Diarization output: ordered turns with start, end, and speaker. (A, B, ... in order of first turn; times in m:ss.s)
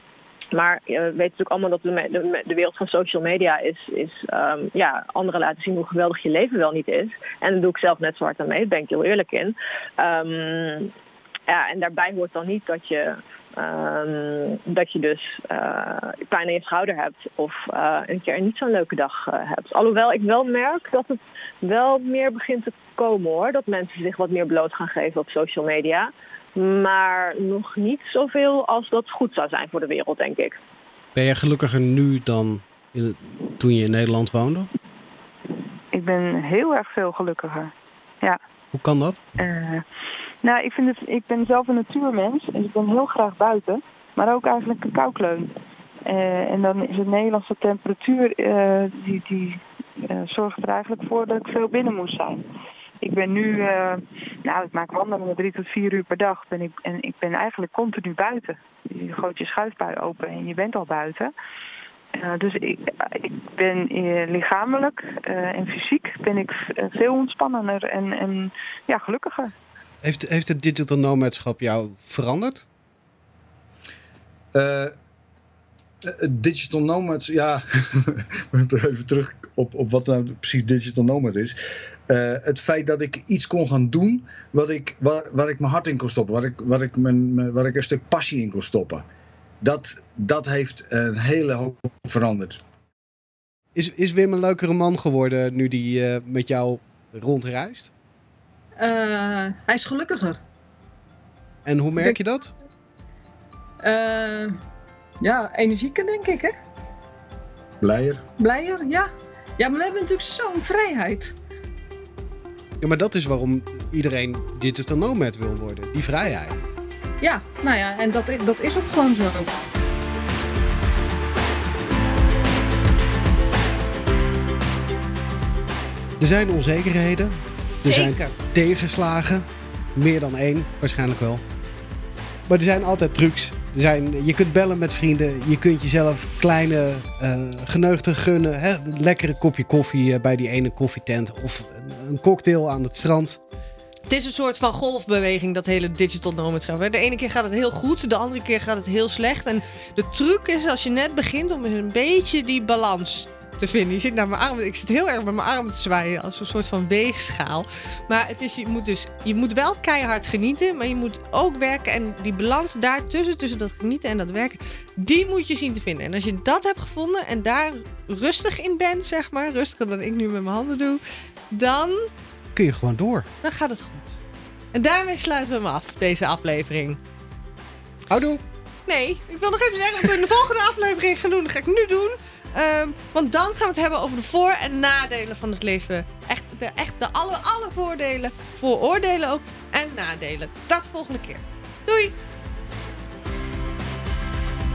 0:00.5-0:10.9 A
0:11.5-0:30.6 A
0:31.2-0:34.7 B
0:35.9-0:38.4 C
0:38.7-0:39.2 B
0:39.4-0:39.8 C
0:40.4-0:45.5 C
0:46.1-0:52.4 C
0:53.0-1:01.3 C
1:02.2-1:09.5 C
1:10.0-1:12.7 B
1:14.5-1:15.0 D
1:16.0-1:21.6 D
1:22.1-1:29.1 D
1:29.6-1:32.6 D
1:33.8-1:37.9 B
1:38.8-1:40.4 E
1:41.6-1:42.5 B
1:43.8-1:44.6 E
1:45.2-1:46.6 E
1:47.8-1:48.2 D
1:48.4-1:51.3 E
1:52.8-1:56.6 B
1:57.2-1:59.6 E
2:06.2-2:11.4 B
2:07.8-2:08.3 F
2:12.5-2:23.4 B
2:24.1-2:52.1 F
2:52.6-2:53.3 B
2:53.4-2:54.2 F
2:54.7-2:57.0 F
2:58.1-2:58.4 B
2:58.9-3:12.2 F